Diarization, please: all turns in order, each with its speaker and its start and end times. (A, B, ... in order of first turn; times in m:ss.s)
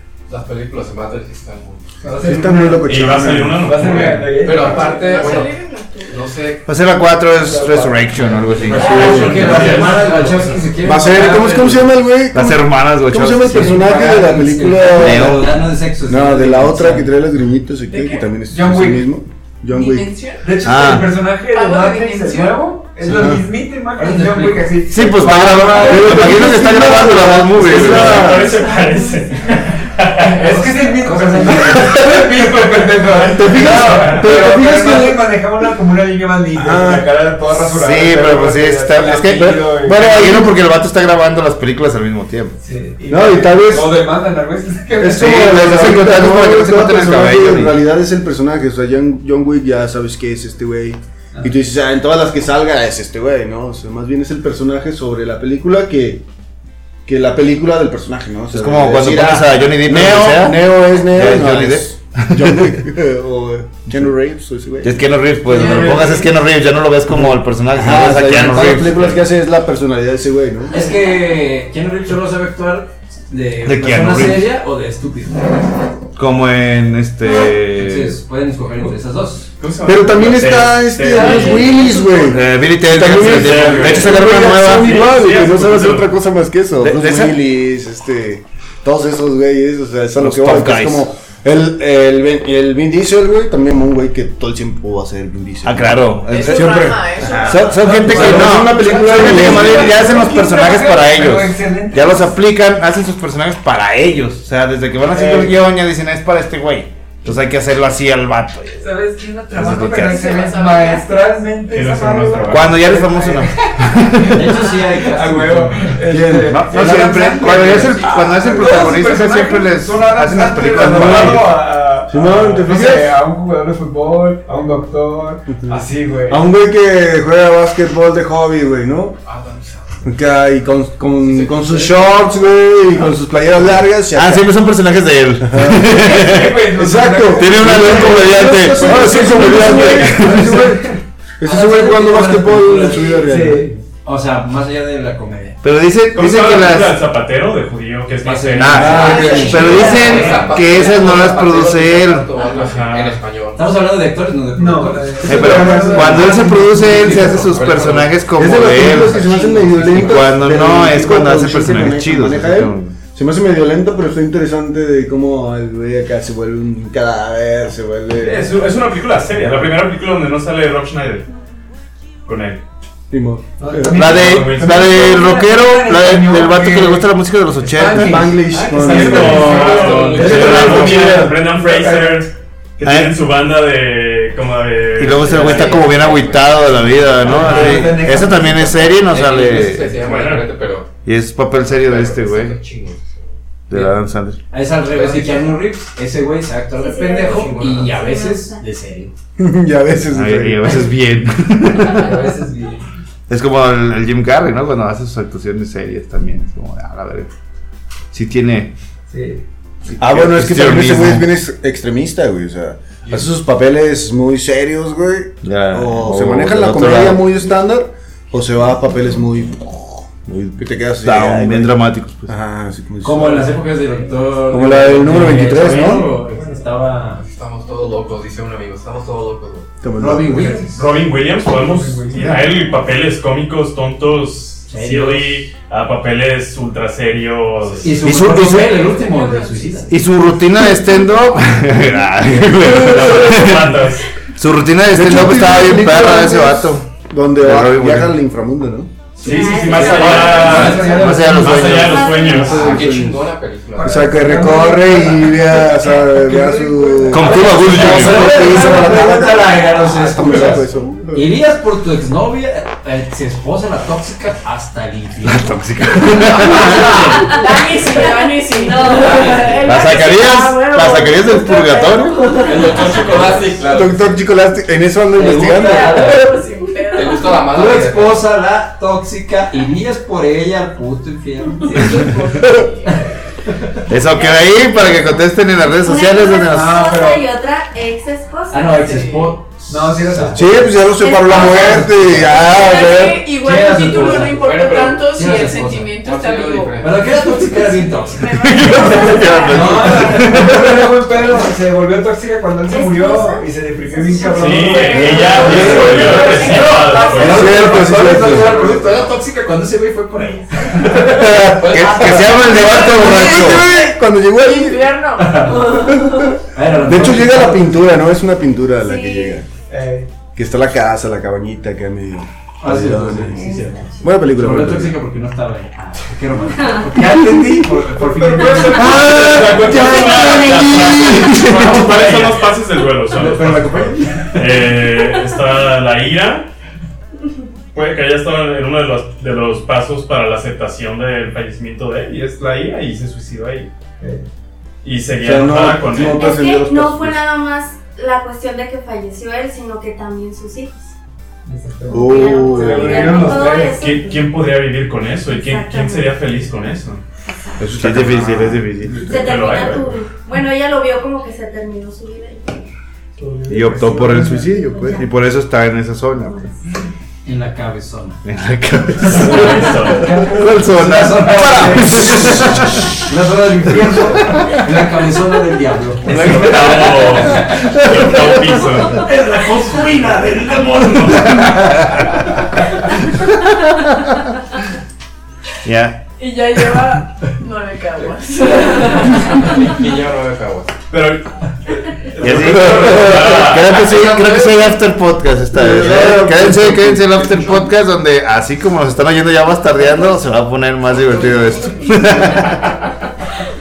0:00.3-0:02.0 A
0:02.0-0:05.4 B
0:02.2-0:04.0 C
0:02.9-0:04.5 D
0:04.4-0:05.5 A
0:04.6-0:06.3 E
0:06.1-0:06.6 A
0:06.7-0:09.5 F
0:07.4-0:10.1 B
0:08.7-0:11.9 G
0:08.7-0:10.7 D
0:08.8-0:09.8 C
0:09.3-0:09.6 A
0:10.8-0:15.4 C
0:10.9-0:11.8 B
0:12.3-0:13.8 F
0:13.5-0:17.1 G
0:15.0-0:15.5 F
0:16.1-0:20.3 C
0:17.9-0:18.3 E
0:18.5-0:19.1 B
0:19.7-0:20.4 E
0:20.4-0:26.9 B
0:20.6-0:21.1 F
0:21.5-0:22.7 E
0:23.0-0:23.4 C
0:24.0-0:24.7 G
0:24.9-0:28.5 F
0:25.7-0:28.6 C
0:27.6-0:30.4 D
0:28.6-0:29.3 E
0:30.2-0:40.5 B
0:30.4-0:32.0 G
0:33.2-0:35.3 C
0:33.6-0:34.2 D
0:36.6-0:37.1 C
0:37.6-0:42.6 F
0:39.8-0:40.5 C
0:42.6-0:45.8 B
0:43.1-0:44.0 C
0:45.0-0:56.2 C
0:45.0-0:47.8 F
0:57.1-1:05.0 C
0:58.5-1:02.8 F
1:04.8-1:09.3 F
1:05.5-1:06.3 B
1:05.5-1:06.3 E
1:07.2-1:10.8 C
1:10.7-1:15.6 G
1:13.6-1:14.5 F
1:16.2-1:18.2 F
1:17.7-1:19.5 G
1:19.6-1:21.8 D
1:19.8-1:40.1 C
1:22.2-1:25.2 F
1:23.1-1:26.1 D
1:26.8-1:27.4 F
1:30.2-1:31.1 F
1:35.6-1:48.9 F
1:36.2-1:38.1 E
1:37.8-1:42.3 B
1:40.2-1:40.5 E
1:45.1-1:45.6 B
1:48.8-2:06.5 B
1:49.5-1:50.4 F
1:49.9-1:51.4 E
1:51.7-1:52.8 D
1:52.5-1:54.5 F
1:54.3-1:56.0 G
1:56.1-1:57.9 C
1:56.5-2:01.6 F
1:57.9-1:58.3 E
2:00.8-2:01.5 C
2:02.1-2:03.1 C
2:05.7-2:09.2 C
2:09.2-2:10.3 A
2:10.0-2:14.5 C
2:11.2-2:12.2 A
2:14.1-2:16.7 F
2:15.4-2:20.9 C
2:15.8-2:21.0 B
2:17.4-2:20.6 F
2:21.4-2:23.8 C
2:21.4-2:23.3 G
2:23.2-2:23.7 B
2:24.0-2:25.6 G
2:25.6-2:27.0 F
2:26.1-2:29.8 D
2:28.2-2:30.5 G
2:28.6-2:32.3 F
2:28.8-2:29.8 C
2:29.0-2:30.4 H
2:29.2-2:29.8 E
2:29.6-2:33.6 A
2:32.6-2:33.2 D
2:33.6-2:36.4 G
2:34.6-2:37.4 B
2:35.2-2:43.0 F
2:35.3-2:36.3 C
2:36.7-2:38.2 A
2:38.4-2:48.8 C
2:38.9-2:40.3 G
2:48.2-2:51.3 D
2:52.3-2:52.6 D
2:53.1-2:54.2 C
2:53.6-2:57.1 B
2:53.9-2:58.3 F
2:54.1-2:55.2 D
2:57.6-3:02.2 B
2:57.9-3:01.5 C
2:58.5-3:05.9 D
2:58.8-3:00.8 A
3:00.4-3:01.0 F
3:02.8-3:03.2 F
3:05.0-3:10.0 F
3:05.2-3:06.2 G
3:05.8-3:07.0 A
3:07.2-3:08.9 B
3:07.2-3:08.0 D
3:08.9-3:10.9 A
3:10.0-3:10.5 D
3:11.0-3:12.6 F
3:11.6-3:13.3 A
3:13.7-3:14.4 F
3:14.5-3:19.1 G
3:14.9-3:15.6 A
3:16.8-3:18.6 H
3:17.1-3:18.0 A
3:19.4-3:20.8 C
3:20.1-3:22.2 F
3:21.9-3:22.8 B
3:23.3-3:27.3 F
3:28.1-3:28.7 F
3:29.1-3:29.4 B
3:29.9-3:31.3 F
3:30.0-3:41.8 C
3:33.0-3:33.3 A
3:35.4-3:37.2 F
3:40.3-3:42.3 F
3:42.3-3:43.6 C
3:43.0-3:47.2 G
3:44.5-3:46.1 C
3:45.8-3:46.6 B
3:47.2-3:49.7 A
3:49.8-3:50.6 C
3:50.0-3:50.8 G
3:50.3-3:52.5 B
3:50.7-3:58.1 D
3:52.2-3:52.4 F
3:54.7-3:55.5 G
3:57.6-3:57.9 A
3:57.8-3:59.9 G
3:58.0-3:58.8 F
3:58.2-4:00.0 H
3:59.9-4:08.2 F
4:00.9-4:01.6 H
4:02.6-4:04.1 D
4:02.6-4:03.3 C
4:04.9-4:09.0 C
4:09.2-4:12.8 D
4:09.2-4:11.2 H
4:09.2-4:11.9 B
4:09.7-4:11.2 G
4:10.7-4:12.8 F
4:11.8-4:12.6 H
4:12.2-4:13.3 C
4:12.4-4:14.3 A
4:13.8-4:19.0 B
4:13.8-4:21.3 C
4:15.8-4:16.0 H
4:17.1-4:18.5 F
4:17.6-4:27.3 G
4:25.2-4:27.3 F
4:27.2-4:33.4 H
4:27.2-4:31.0 E
4:28.8-4:29.7 G
4:29.6-4:32.4 F
4:31.6-4:33.0 E
4:32.4-4:34.2 A
4:33.7-4:36.4 C
4:35.1-4:36.2 G
4:35.4-4:37.5 E
4:36.9-4:38.2 A
4:37.5-4:42.2 G
4:41.6-4:43.0 E
4:42.8-4:43.7 G
4:43.9-4:46.9 F
4:45.8-4:49.1 H
4:46.5-4:47.3 B
4:48.5-4:52.8 G
4:48.7-4:49.4 E
4:49.7-4:50.7 B
4:50.3-4:53.4 C
4:51.0-4:51.8 H
4:51.3-4:51.6 E
4:52.4-4:56.9 E
4:53.3-4:55.9 G
4:54.3-4:55.0 A
4:56.0-4:57.6 A
4:56.8-4:58.8 G
4:58.1-5:00.0 E
4:58.4-5:00.9 F
4:59.1-5:00.5 H
4:59.5-5:09.1 B
5:02.7-5:07.2 H
5:04.3-5:07.7 D
5:05.1-5:07.4 E
5:05.1-5:06.3 C
5:05.4-5:11.4 G
5:07.1-5:08.8 C
5:08.0-5:09.2 A
5:11.0-5:13.7 F
5:11.2-5:14.9 C
5:11.6-5:12.6 A
5:11.8-5:16.3 E
5:15.2-5:15.9 G
5:15.6-5:16.0 H
5:15.9-5:19.5 C
5:16.5-5:17.8 G
5:18.8-5:19.4 H
5:19.7-5:20.1 B
5:20.4-5:25.0 C
5:22.6-5:32.5 G
5:23.3-5:24.2 H
5:26.6-5:26.9 H
5:27.9-5:29.8 B
5:28.6-5:36.5 D
5:28.9-5:29.6 C
5:29.4-5:31.3 H
5:33.1-5:34.7 G
5:37.7-5:43.7 D
5:44.0-5:44.3 B
5:44.8-5:46.3 D
5:45.2-5:47.2 C
5:46.0-5:50.9 H
5:51.4-5:53.8 B
5:51.9-5:53.4 C
5:52.0-5:54.4 H
5:53.6-5:57.0 D
5:55.3-5:56.2 H
5:57.2-5:57.7 H
5:57.6-5:59.7 C
5:57.7-5:59.2 F
5:59.0-6:02.7 H
5:59.1-6:00.0 D
6:03.2-6:04.6 B
6:03.5-6:06.5 F
6:04.5-6:05.0 C
6:04.7-6:05.0 H
6:07.2-6:08.2 G
6:08.2-6:12.9 F
6:09.0-6:10.2 D
6:09.2-6:12.3 B
6:10.7-6:18.2 G
6:16.1-6:19.1 D
6:16.1-6:16.7 F
6:18.7-6:21.6 G
6:20.7-6:21.8 D
6:21.4-6:22.0 F
6:23.1-6:24.2 F
6:25.6-6:26.0 F
6:26.2-6:29.8 E
6:29.2-6:30.8 A
6:30.9-6:34.0 D
6:32.2-6:42.9 F
6:32.4-6:33.6 C
6:35.5-6:37.2 C